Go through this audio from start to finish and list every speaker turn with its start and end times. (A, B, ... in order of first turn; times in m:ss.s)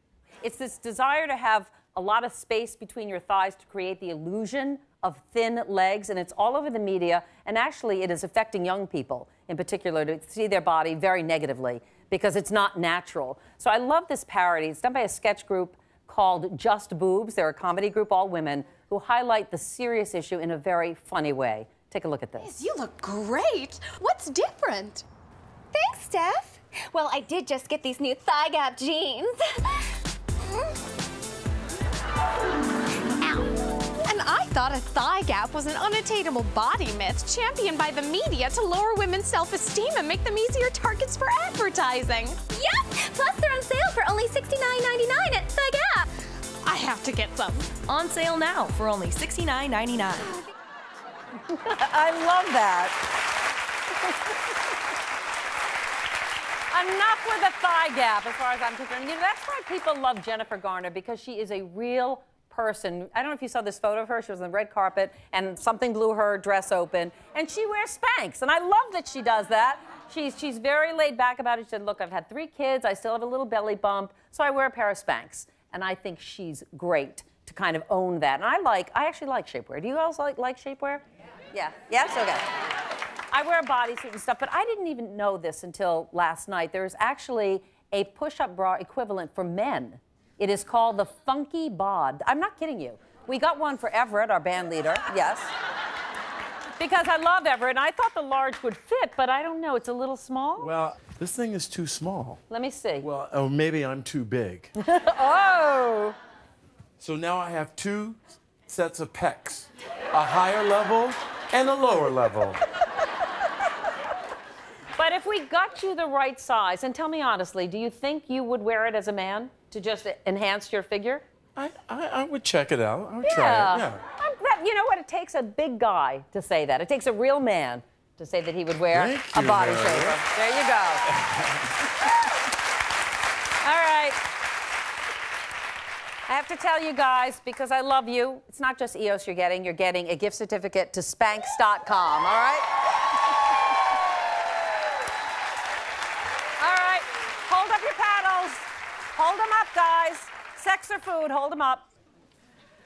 0:00.4-0:22.5 A
0:22.4-0:25.0 B
0:25.7-0:30.7 C
0:33.2-0:33.5 C
0:34.1-0:42.4 B
0:42.4-0:46.1 C
0:46.7-0:47.7 B
0:47.8-0:50.3 D
0:51.5-0:53.0 A
0:56.7-1:22.4 A
1:23.3-1:35.5 A
1:36.8-1:40.7 A
1:40.6-1:42.4 E
1:42.5-1:43.1 A
1:43.0-1:44.7 E
1:44.8-1:46.2 A
1:47.0-1:52.6 E
1:55.0-2:01.2 A
2:01.6-2:04.0 E
2:03.2-2:11.1 A
2:08.9-2:10.2 E
2:13.6-2:14.2 A
2:16.3-2:22.8 A
2:26.6-2:31.9 A